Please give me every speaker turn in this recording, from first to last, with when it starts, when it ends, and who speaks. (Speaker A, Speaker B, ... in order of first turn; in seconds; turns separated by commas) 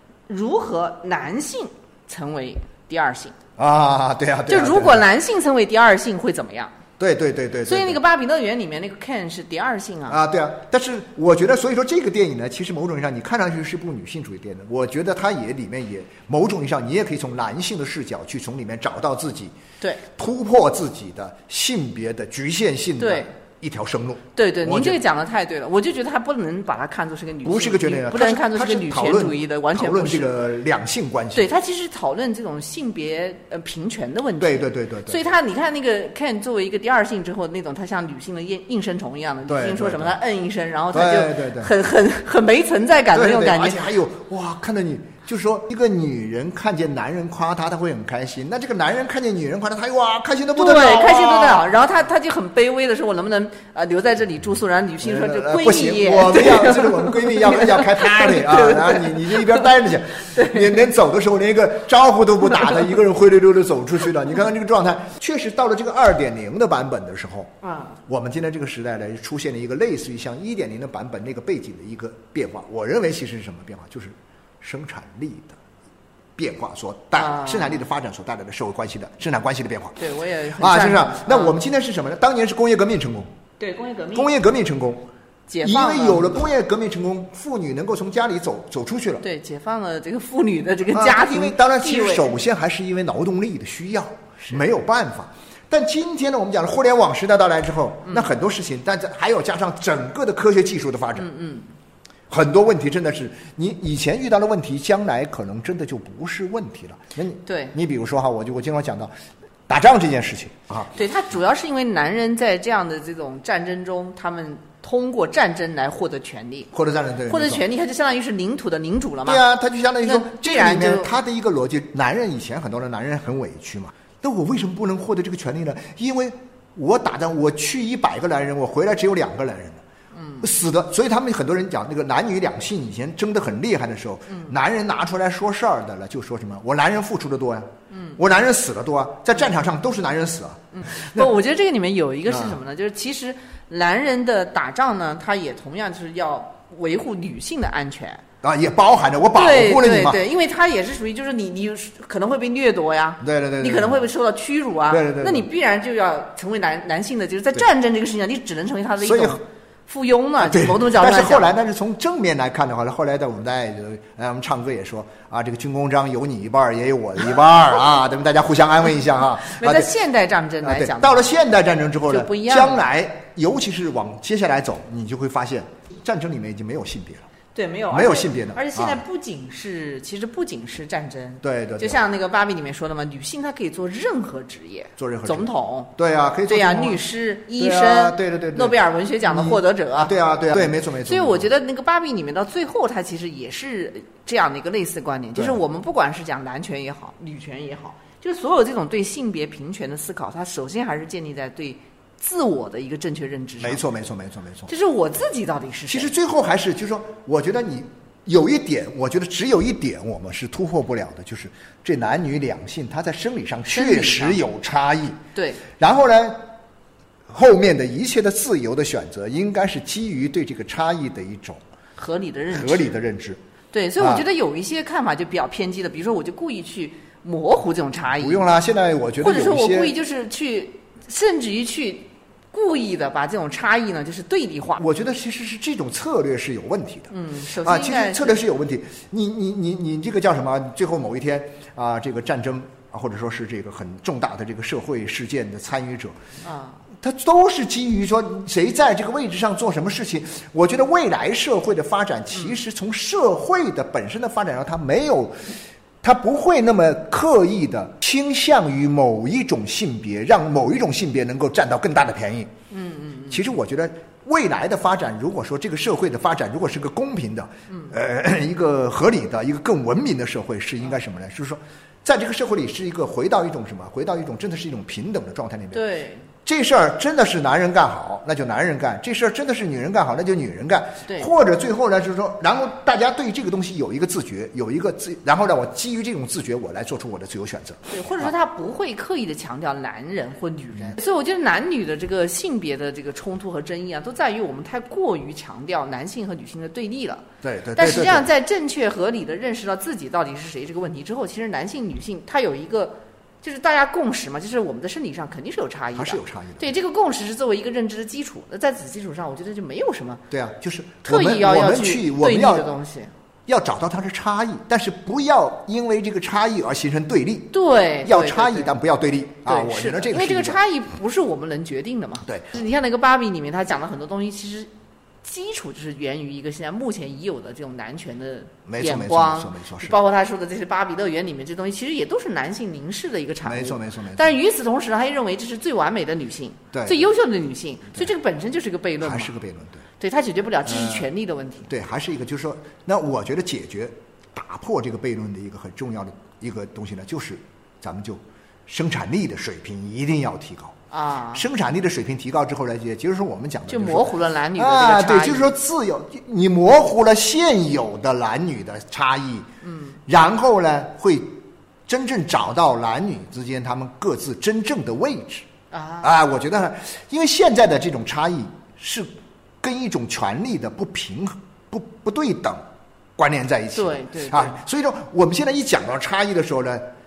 Speaker A: 0.3-3.4, Speaker B: 3.6-5.0, Speaker A: 4.5-6.7, Speaker B: 7.0-8.0, Speaker A: 7.7-10.2, Speaker B: 10.1-19.5, Speaker B: 20.1-25.0, Speaker A: 23.0-23.3, Speaker A: 24.4-30.4, Speaker B: 27.4-31.5, Speaker A: 31.3-43.9, Speaker B: 34.4-35.3, Speaker B: 39.5-40.2, Speaker B: 40.9-41.7, Speaker B: 43.1-51.7, Speaker A: 50.5-60.9, Speaker B: 55.0-67.5, Speaker A: 67.6-68.0, Speaker B: 68.1-75.6, Speaker B: 76.4-80.0, Speaker A: 77.2-77.8, Speaker A: 80.0-81.6, Speaker B: 80.6-83.3, Speaker A: 83.6-84.3, Speaker B: 84.1-85.1, Speaker A: 85.5-86.4, Speaker B: 85.6-89.2, Speaker A: 89.2-92.4, Speaker B: 90.9-101.3, Speaker A: 98.0-98.3, Speaker A: 101.2-101.7, Speaker B: 102.3-109.1, Speaker A: 107.5-107.8, Speaker B: 109.7-110.9, Speaker A: 110.9-116.7, Speaker B: 116.7-117.7, Speaker A: 117.3-119.5, Speaker B: 119.3-129.8, Speaker A: 120.0-121.1, Speaker A: 130.2-130.5, Speaker B: 130.4-141.3, Speaker A: 137.9-138.2, Speaker A: 140.7-148.2, Speaker B: 142.3-142.6, Speaker B: 148.4-150.2, Speaker A: 149.3-161.5, Speaker B: 153.2-154.1, Speaker B: 154.9-155.5, Speaker B: 159.0-159.4, Speaker B: 160.4-169.9, Speaker A: 169.5-171.3, Speaker B: 170.6-177.3, Speaker A: 172.1-172.9, Speaker A: 177.5-185.9, Speaker B: 177.9-179.0, Speaker B: 181.4-182.0, Speaker B: 185.0-187.0, Speaker A: 186.5-203.8, Speaker B: 187.6-188.8, Speaker B: 189.3-191.5, Speaker B: 203.6-204.7, Speaker A: 204.7-206.1, Speaker B: 205.9-215.2, Speaker A: 213.7-214.4, Speaker A: 215.3-215.6, Speaker B: 215.7-216.4, Speaker B: 217.3-221.6, Speaker A: 222.0-222.9, Speaker B: 222.5-223.4, Speaker A: 223.7-228.4, Speaker B: 224.0-224.2, Speaker B: 228.1-229.9, Speaker A: 229.2-234.8, Speaker B: 234.8-246.2, Speaker A: 237.1-238.4, Speaker A: 246.4-246.8, Speaker B: 247.0-255.5, Speaker B: 256.0-262.5, Speaker A: 262.7-263.4, Speaker B: 263.3-275.9, Speaker A: 275.7-276.3, Speaker B: 276.4-288.3, Speaker A: 287.9-297.3, Speaker B: 297.4-298.3, Speaker A: 297.8-310.2, Speaker B: 305.9-306.7, Speaker B: 310.3-312.7, Speaker A: 311.1-313.1, Speaker B: 313.5-320.6, Speaker A: 317.5-318.7, Speaker A: 319.5-324.7, Speaker B: 322.3-322.6, Speaker A: 325.2-339.4, Speaker B: 328.7-330.0, Speaker B: 333.5-334.3, Speaker B: 336.7-337.0, Speaker B: 339.0-339.9, Speaker A: 340.0-341.7, Speaker B: 340.6-341.1, Speaker B: 341.7-350.8, Speaker A: 350.9-351.5, Speaker B: 351.3-359.5, Speaker A: 353.7-355.5, Speaker A: 359.6-360.0, Speaker B: 360.1-365.5, Speaker A: 365.7-366.1, Speaker B: 366.0-369.1, Speaker B: 369.6-372.6, Speaker B: 373.2-376.9, Speaker A: 373.8-374.6